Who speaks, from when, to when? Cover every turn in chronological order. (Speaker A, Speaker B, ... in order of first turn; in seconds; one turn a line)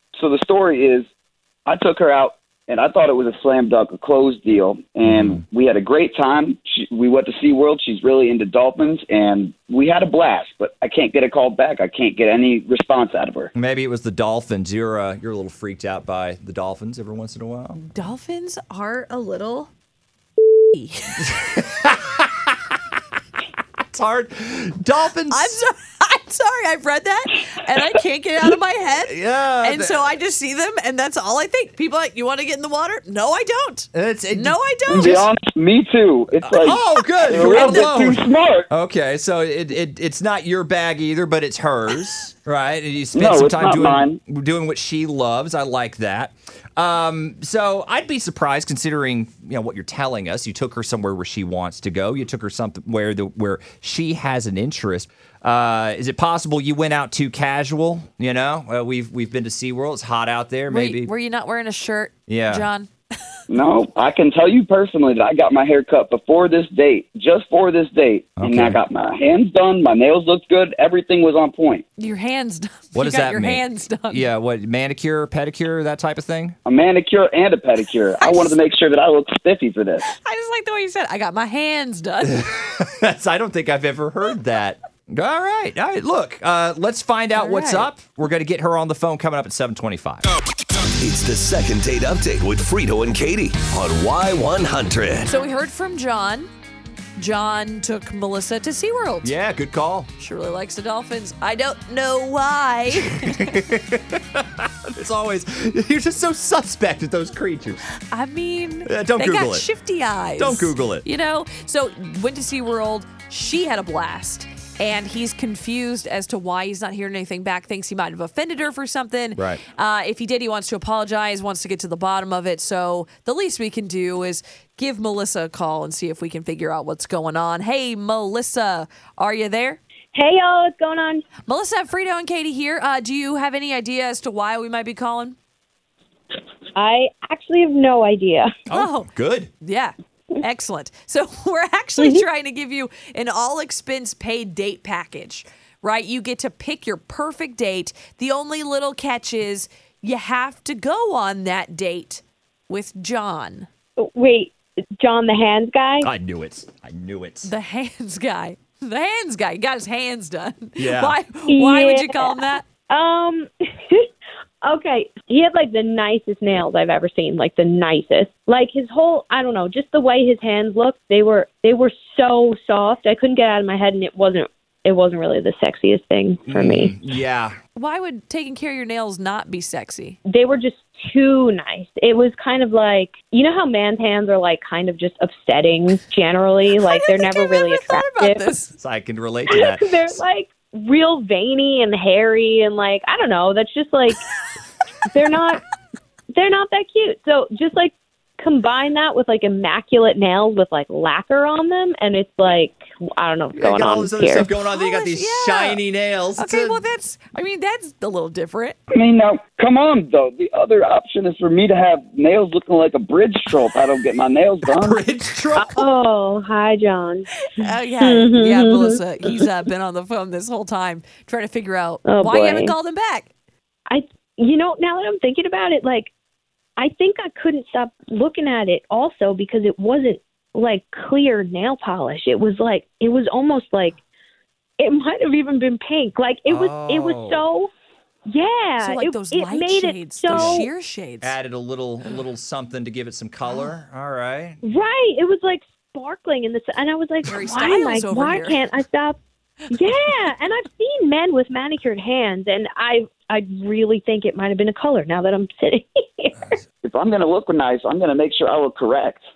Speaker A: 0.2-1.1
Speaker A: 1.7-13.5
Speaker B: 5.1-5.4
Speaker B: 13.6-17.8
Speaker C: 17.8-19.7
Speaker C: 20.7-21.4
Speaker B: 21.2-22.8
Speaker B: 23.8-25.5
Speaker C: 25.3-35.2
Speaker B: 29.1-30.1
Speaker B: 33.9-35.1
Speaker A: 34.9-38.7
Speaker B: 36.5-61.1
Speaker C: 37.3-37.8
Speaker A: 43.1-44.2
Speaker C: 60.7-62.9
Speaker B: 62.3-62.7
Speaker A: 63.5-71.8
Speaker B: 68.4-68.8
Speaker C: 72.0-74.2
Speaker B: 73.0-76.6
Speaker A: 76.7-80.1
Speaker C: 78.2-78.5
Speaker C: 80.0-82.4
Speaker B: 82.3-90.2
Speaker C: 87.3-87.9
Speaker D: 91.0-95.3
Speaker C: 95.3-96.5
Speaker C: 97.2-99.3
Speaker B: 99.2-100.1
Speaker C: 100.2-103.6
Speaker B: 103.3-107.8
Speaker C: 108.1-129.8
Speaker B: 108.9-109.7
Speaker B: 110.4-111.0
Speaker B: 119.4-119.6
Speaker E: 130.1-131.2
Speaker C: 131.5-135.4
Speaker E: 136.8-138.5
Speaker B: 138.7-139.5
Speaker C: 138.7-139.1
Speaker C: 139.6-153.7
Speaker E: 142.0-142.2
Speaker E: 154.0-156.1
Speaker B: 156.0-157.5
Speaker C: 157.4-162.7
Speaker B: 160.8-161.2
Speaker E: 161.5-164.1
Speaker E: 164.6-176.9
Speaker B: 176.5-177.6
Speaker C: 177.8-180.2
Speaker E: 180.3-188.5
Speaker C: 186.7-188.7
Speaker B: 188.8-190.1
Speaker E: 189.5-194.2
Speaker E: 195.1-195.6
Speaker E: 196.3-204.5
Speaker B: 203.6-206.8
Speaker C: 204.6-205.8
Speaker C: 206.4-208.8
Speaker A: 208.9-215.0
Speaker B: 214.7-215.8
Speaker E: 215.6-217.3
Speaker C: 217.6-223.3
Speaker E: 218.0-219.4
Speaker E: 222.1-222.7
Speaker E: 223.9-226.1
Speaker E: 226.8-234.0
Speaker E: 234.8-237.7
Speaker B: 236.5-237.4
Speaker E: 238.3-240.7
Speaker C: 238.8-241.3
Speaker B: 240.3-240.7
Speaker B: 241.2-244.6
Speaker E: 244.6-249.2
Speaker C: 247.3-248.7
Speaker E: 249.7-256.6
Speaker C: 249.8-250.2
Speaker A: 256.8-259.2